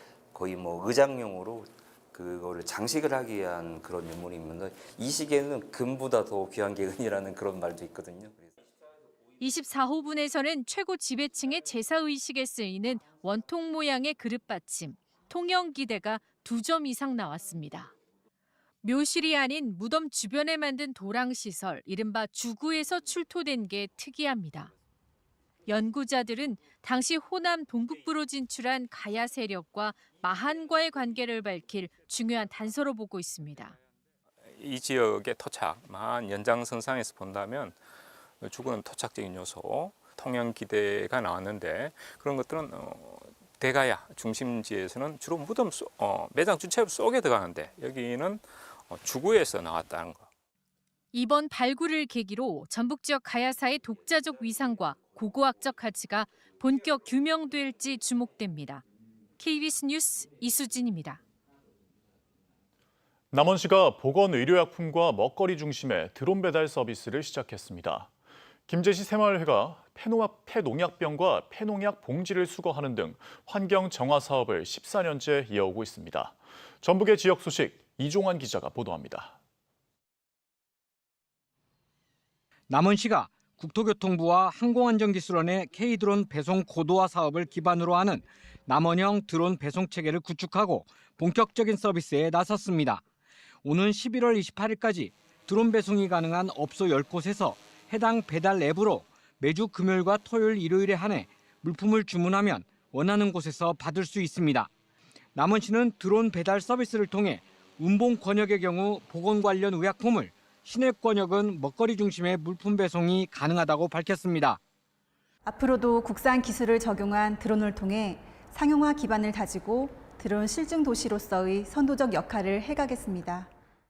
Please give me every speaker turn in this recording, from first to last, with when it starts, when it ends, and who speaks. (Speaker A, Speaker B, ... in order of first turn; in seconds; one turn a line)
Speaker A: 0.3-8.5
Speaker B: 9.4-17.9
Speaker B: 18.8-24.7
Speaker B: 25.7-33.8
Speaker C: 34.6-37.8
Speaker C: 38.4-50.2
Speaker B: 51.1-58.8
Speaker B: 59.4-61.2
Speaker D: 63.3-68.1
Speaker D: 68.7-79.4
Speaker E: 82.7-93.0
Speaker E: 93.6-104.7
Speaker E: 105.3-114.6
Speaker F: 115.5-123.5